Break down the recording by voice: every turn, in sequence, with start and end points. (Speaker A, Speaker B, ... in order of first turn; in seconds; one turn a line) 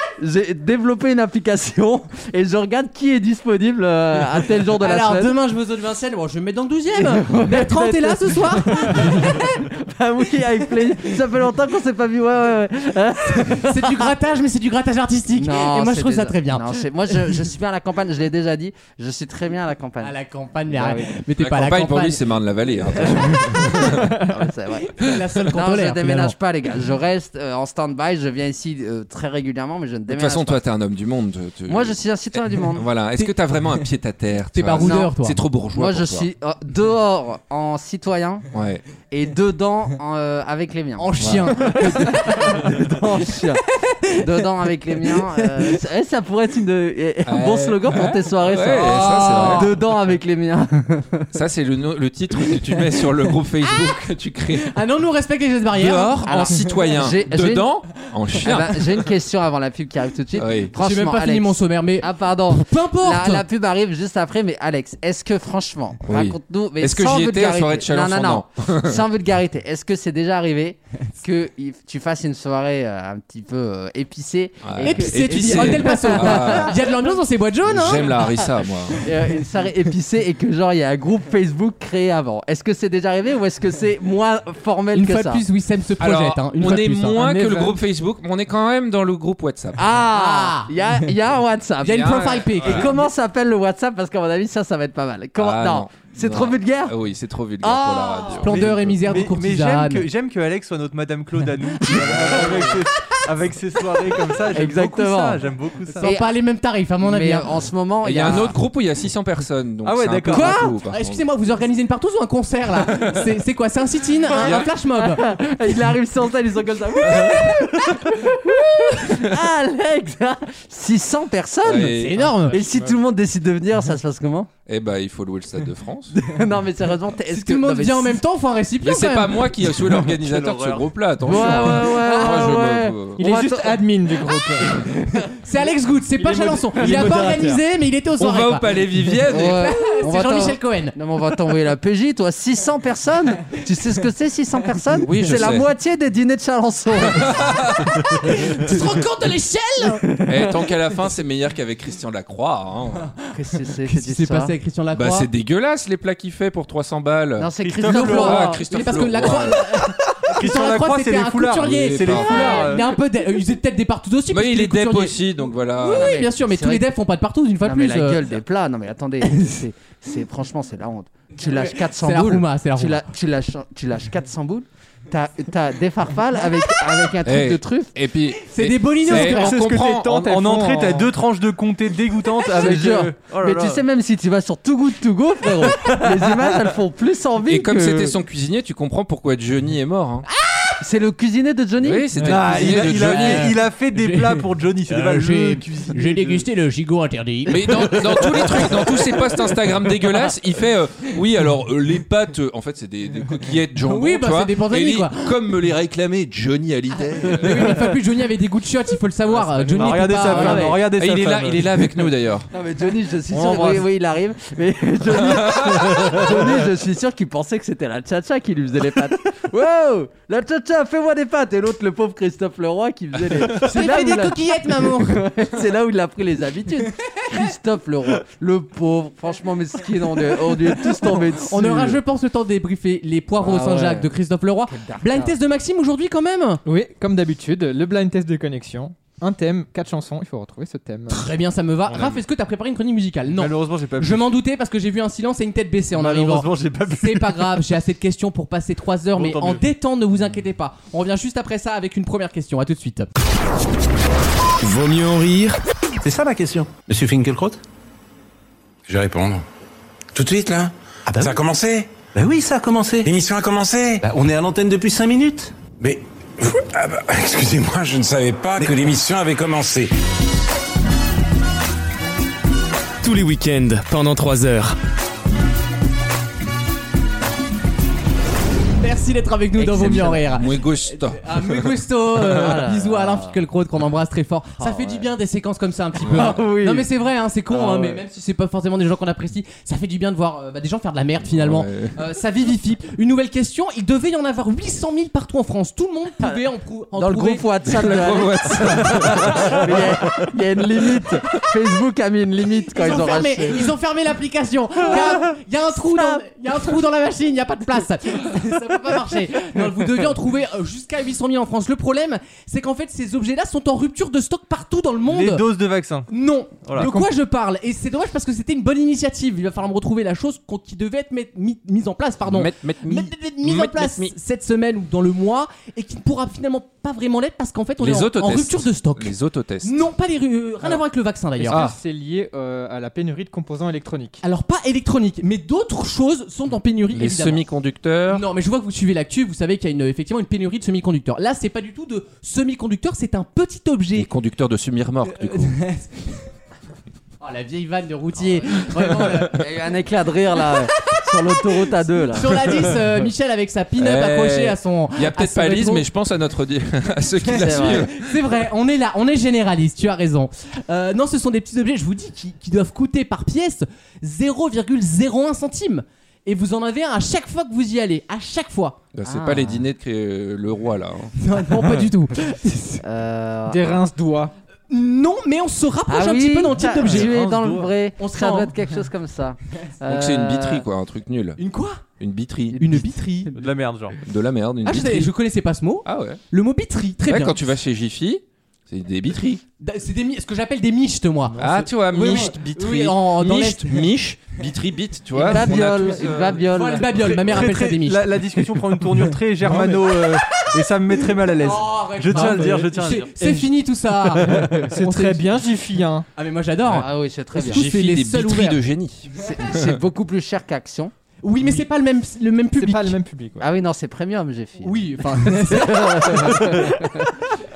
Speaker A: 0.2-5.3
Speaker B: 4.8-9.5
Speaker A: 7.0-14.1
Speaker B: 13.4-16.8
Speaker A: 15.3-20.2
Speaker B: 20.0-22.2
Speaker A: 20.7-21.1
Speaker C: 21.4-24.2
Speaker A: 23.0-30.6
Speaker B: 24.7-26.3
Speaker C: 30.1-36.3
Speaker A: 31.7-32.9
Speaker B: 34.5-35.4
Speaker A: 34.8-35.1
Speaker A: 35.7-38.5
Speaker C: 38.5-38.8
Speaker A: 39.1-51.3
Speaker B: 41.0-42.7
Speaker C: 47.2-49.7
Speaker B: 48.8-49.7
Speaker C: 51.3-54.7
Speaker B: 53.6-54.0
Speaker B: 54.6-56.4
Speaker C: 55.7-59.1
Speaker A: 56.2-57.7
Speaker A: 58.4-76.9
Speaker C: 60.4-60.7
Speaker B: 60.8-63.4
Speaker C: 66.1-69.0
Speaker C: 74.6-76.8
Speaker B: 74.8-78.1
Speaker C: 77.6-79.0
Speaker A: 79.0-85.4
Speaker B: 84.9-87.7
Speaker C: 86.0-89.9
Speaker A: 89.8-96.9
Speaker B: 90.1-90.7
Speaker B: 91.8-92.9
Speaker C: 91.8-92.9
Speaker C: 95.4-98.8
Speaker A: 97.6-98.6
Speaker B: 98.4-100.0
Speaker D: 98.5-106.1
Speaker A: 101.9-102.8
Speaker A: 104.5-105.5
Speaker B: 106.0-107.5
Speaker A: 106.0-106.3
Speaker A: 107.0-108.6
Speaker C: 108.0-111.2
Speaker D: 109.8-110.5
Speaker A: 110.3-110.8
Speaker B: 110.8-115.2
Speaker A: 114.3-124.5
Speaker C: 114.4-114.7
Speaker C: 121.6-122.3
Speaker B: 121.8-122.6
Speaker C: 124.7-126.2
Speaker A: 126.1-128.2
Speaker B: 127.3-129.5
Speaker C: 128.8-133.2
Speaker D: 129.9-130.8
Speaker A: 131.2-133.8
Speaker B: 131.3-132.6
Speaker E: 133.2-134.8
Speaker A: 134.6-135.2
Speaker B: 135.4-138.8
Speaker E: 136.2-137.6
Speaker C: 138.2-139.7
Speaker A: 139.2-147.8
Speaker B: 139.4-140.9
Speaker C: 145.0-145.7
Speaker C: 147.0-148.0
Speaker B: 148.1-150.0
Speaker A: 149.8-150.6
Speaker C: 150.2-153.1
Speaker A: 153.3-154.5
Speaker B: 153.8-155.3
Speaker C: 154.9-159.7
Speaker A: 157.4-158.6
Speaker D: 157.6-158.4
Speaker B: 157.8-165.2
Speaker D: 160.2-162.9
Speaker C: 161.6-162.8
Speaker C: 164.3-166.2
Speaker B: 165.8-168.4
Speaker A: 165.9-166.9
Speaker A: 167.6-177.9
Speaker B: 171.4-173.0
Speaker C: 177.2-180.2
Speaker B: 178.4-179.6
Speaker E: 179.1-181.1
Speaker D: 180.0-183.8
Speaker A: 182.5-188.2
Speaker D: 185.6-186.6
Speaker C: 187.4-190.2
Speaker B: 190.3-190.8
Speaker A: 190.8-192.1
Speaker C: 191.8-193.5
Speaker D: 192.2-196.4
Speaker B: 192.8-198.3
Speaker C: 197.5-207.9
Speaker B: 203.8-205.4
Speaker B: 207.4-210.8
Speaker D: 209.7-211.9
Speaker A: 210.3-210.7
Speaker C: 210.4-212.5
Speaker A: 212.5-232.0
Speaker D: 213.3-213.8
Speaker C: 215.2-216.0
Speaker B: 223.6-225.3
Speaker B: 230.6-236.6
Speaker A: 233.4-234.1
Speaker A: 234.7-235.3
Speaker E: 236.7-241.3
Speaker B: 241.1-253.1
Speaker D: 241.9-242.2
Speaker D: 243.3-244.3
Speaker D: 245.9-247.6
Speaker D: 249.1-249.7
Speaker F: 254.6-255.6
Speaker G: 256.0-257.6
Speaker H: 258.9-259.4
Speaker H: 260.1-261.9
Speaker G: 261.1-261.4
Speaker G: 262.1-263.1
Speaker H: 263.0-264.0
Speaker G: 264.0-265.6
Speaker H: 265.8-269.9
Speaker F: 273.0-274.8
Speaker B: 278.8-297.4
Speaker A: 279.6-280.2
Speaker C: 279.7-281.7
Speaker A: 282.3-283.4
Speaker A: 284.6-285.1
Speaker C: 286.1-286.3
Speaker A: 286.1-286.9
Speaker A: 287.5-288.0
Speaker C: 291.3-292.0
Speaker A: 296.9-303.7
Speaker C: 297.6-299.6
Speaker B: 302.7-315.4
Speaker A: 304.8-305.2
Speaker A: 305.9-306.2
Speaker D: 315.0-316.1
Speaker B: 316.1-331.7
Speaker D: 316.6-317.1
Speaker C: 322.2-324.1
Speaker C: 327.8-329.7
Speaker E: 331.4-334.2
Speaker B: 334.2-337.4
Speaker C: 336.9-338.2
Speaker B: 338.1-344.1
Speaker C: 343.9-345.6
Speaker B: 345.1-346.1
Speaker B: 347.2-349.4
Speaker A: 349.2-352.8
Speaker B: 352.1-355.8
Speaker C: 353.8-358.1
Speaker B: 357.2-368.8
Speaker A: 357.4-357.9
Speaker C: 368.9-371.1
Speaker A: 369.0-369.6
Speaker B: 371.2-372.8
Speaker A: 372.8-373.8
Speaker E: 373.5-374.3
Speaker B: 374.7-377.1
Speaker A: 375.9-380.6
Speaker D: 376.9-377.7
Speaker B: 378.0-378.5
Speaker C: 379.9-381.4
Speaker B: 381.4-381.8
Speaker C: 382.0-382.6
Speaker B: 382.6-383.3
Speaker D: 383.3-384.0
Speaker C: 384.0-385.1
Speaker B: 384.6-387.3
Speaker C: 385.8-386.2
Speaker C: 387.1-389.4
Speaker B: 389.6-391.4
Speaker C: 391.4-396.4
Speaker E: 391.4-391.6
Speaker B: 391.9-393.8
Speaker B: 395.1-395.5
Speaker A: 395.2-397.4
Speaker B: 396.5-398.0
Speaker D: 396.9-403.3
Speaker E: 399.4-399.8
Speaker B: 401.4-405.3
Speaker E: 402.1-402.7
Speaker D: 404.2-404.7
Speaker E: 404.3-406.1
Speaker B: 406.1-408.6
Speaker A: 406.7-407.6
Speaker C: 407.4-409.8
Speaker A: 409.2-410.9
Speaker B: 411.2-413.0
Speaker E: 412.6-413.4
Speaker A: 413.4-417.0
Speaker B: 414.6-416.9